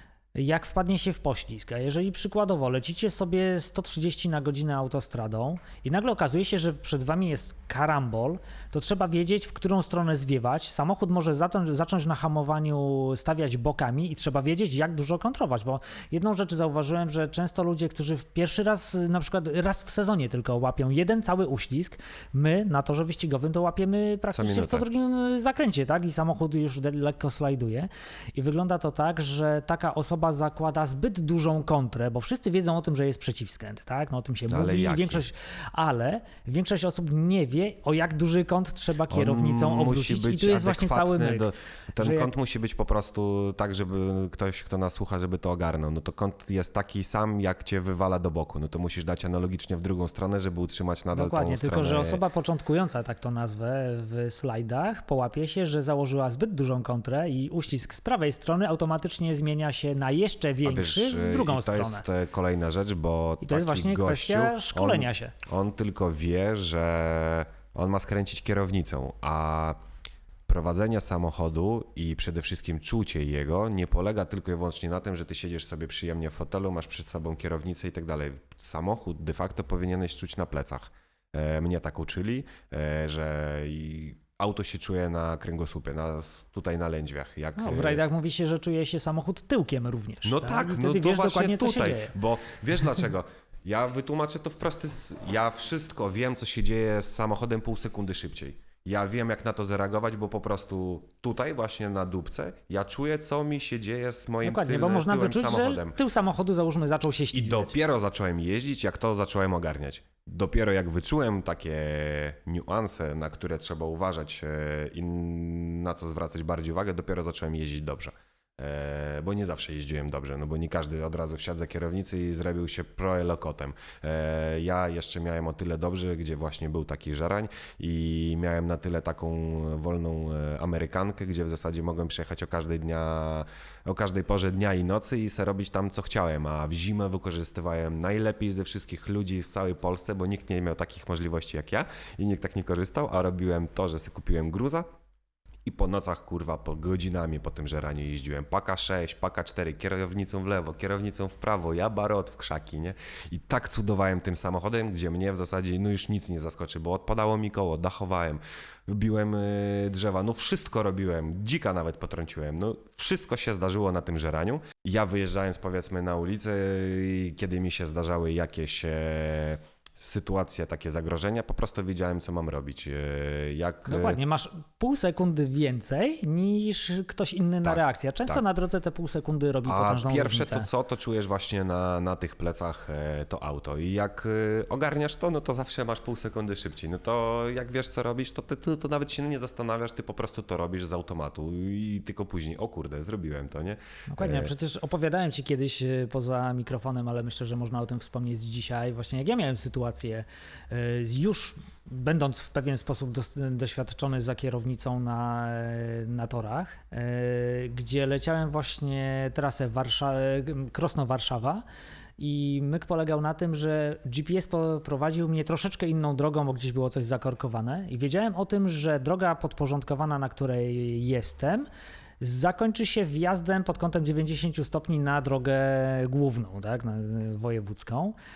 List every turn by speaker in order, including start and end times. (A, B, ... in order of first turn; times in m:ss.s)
0:00.4-0:42.3 A
0:24.3-0:24.8 B
0:34.5-0:35.2 B
0:39.1-0:52.2 B
0:51.1-1:02.1 A
1:00.6-1:09.8 B
1:03.4-1:05.3 A
1:10.5-1:28.0 B
1:27.6-1:32.2 A
1:30.2-1:46.0 B
1:44.4-1:47.8 A
1:47.3-2:24.9 B
2:25.6-2:54.2 B
2:53.9-3:00.7 A
2:57.6-2:58.4 B
2:59.7-3:14.5 B
3:14.1-3:31.6 A
3:32.2-3:41.7 A
3:42.2-3:48.2 A